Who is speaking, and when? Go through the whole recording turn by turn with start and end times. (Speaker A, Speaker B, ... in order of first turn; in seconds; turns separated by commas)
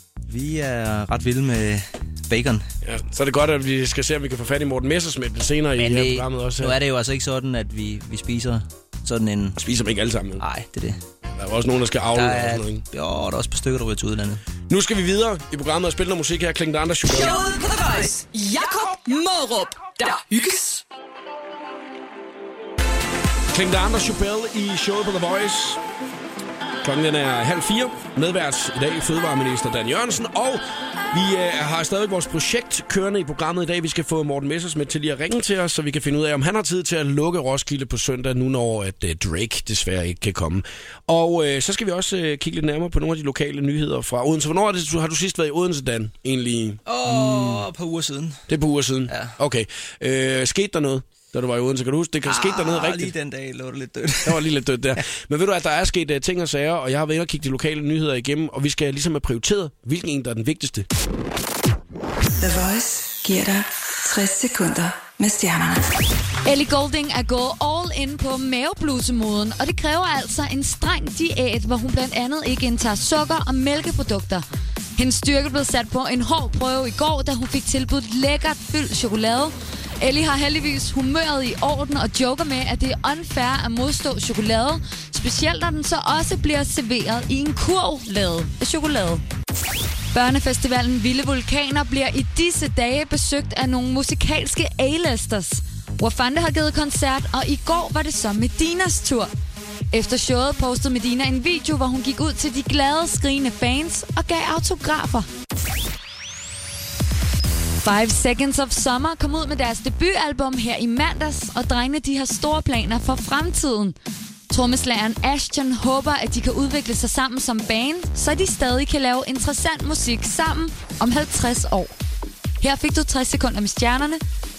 Speaker A: 0.3-2.6, Speaker B: 2.8-6.7, Speaker A: 5.8-9.6, Speaker B: 9.6-10.4, Speaker A: 10.4-11.0, Speaker B: 11.4-12.8, Speaker A: 12.1-14.4, Speaker B: 14.7-17.4, Speaker C: 17.1-20.8, Speaker B: 23.5-25.8, Speaker B: 26.8-47.6, Speaker A: 46.9-48.4, Speaker B: 48.5-53.1, Speaker A: 49.1-49.4, Speaker A: 52.2-54.5, Speaker B: 54.2-60.9, Speaker D: 62.4-65.8, Speaker E: 66.4-74.5, Speaker E: 75.0-89.2, Speaker E: 90.1-99.3, Speaker E: 99.9-105.3, Speaker E: 107.8-113.9, Speaker E: 114.5-121.9, Speaker E: 122.6-124.2